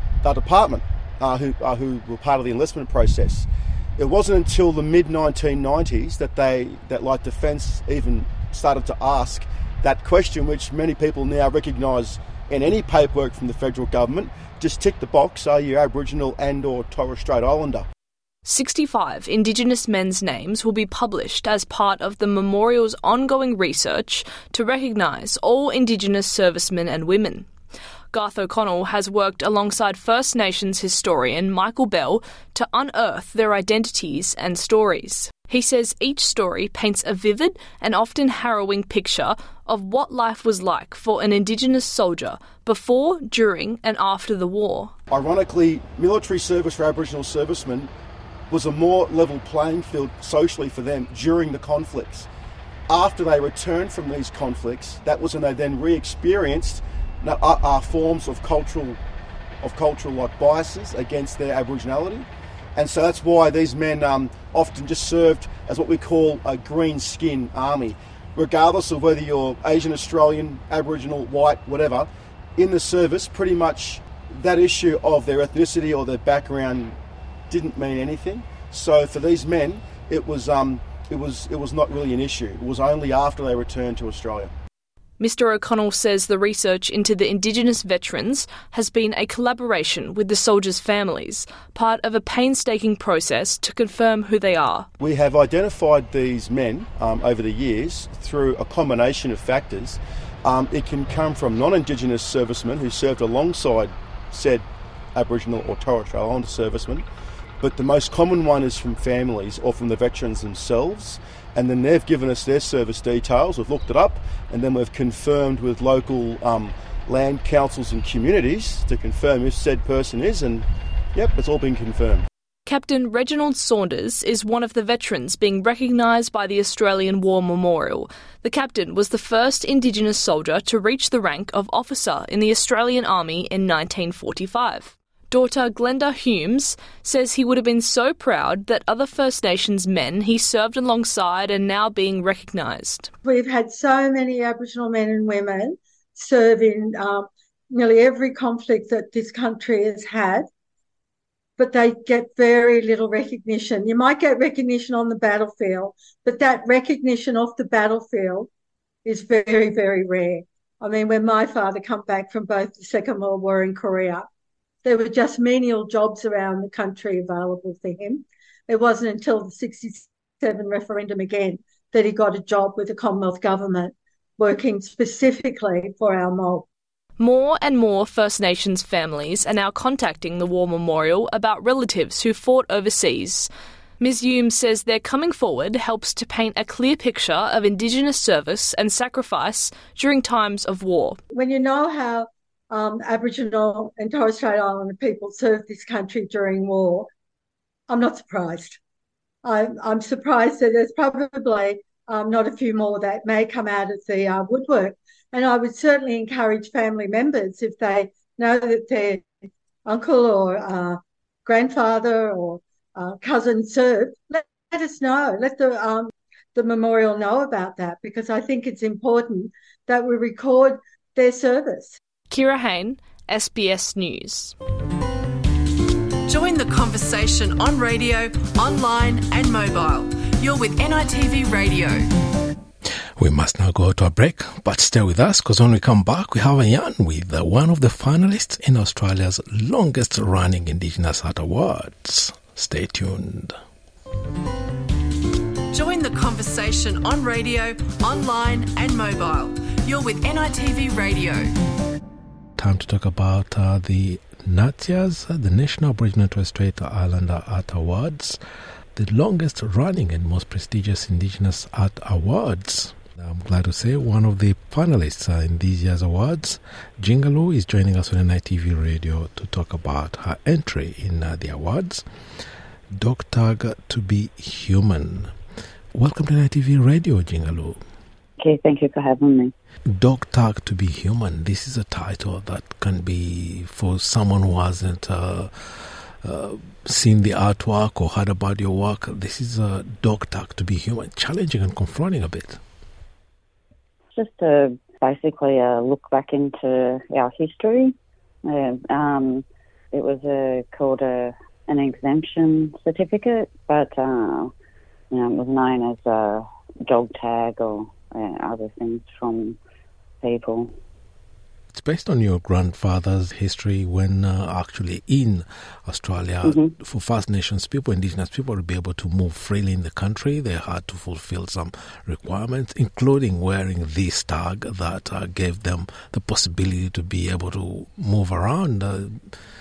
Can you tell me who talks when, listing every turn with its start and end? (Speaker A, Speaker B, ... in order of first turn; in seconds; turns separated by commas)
Speaker A: 0.2-17.9, Speaker B: 18.4-27.5, Speaker B: 28.1-44.9, Speaker A: 45.1-47.9, Speaker A: 48.5-52.3, Speaker A: 52.9-59.0, Speaker A: 59.6-77.0, Speaker A: 77.5-84.5, Speaker B: 85.2-94.9, Speaker A: 95.0-107.0, Speaker A: 107.6-122.2, Speaker B: 122.7-143.1, Speaker C: 143.2-150.5, Speaker C: 151.6-158.5, Speaker C: 159.0-164.3, Speaker C: 164.8-176.7, Speaker B: 177.2-191.2, Speaker C: 191.3-197.1, Speaker C: 197.9-198.8, Speaker C: 199.4-209.3, Speaker C: 209.8-222.0, Speaker B: 222.3-224.5, Speaker D: 226.3-232.1, Speaker E: 233.2-243.6, Speaker D: 245.7-251.5, Speaker E: 252.6-258.4, Speaker E: 258.9-272.0, Speaker E: 272.9-275.3, Speaker E: 275.9-277.8, Speaker F: 278.4-279.5, Speaker E: 279.9-292.6, Speaker F: 294.1-304.5, Speaker F: 305.1-309.6, Speaker F: 310.2-310.7, Speaker E: 311.7-329.4, Speaker F: 316.4-316.7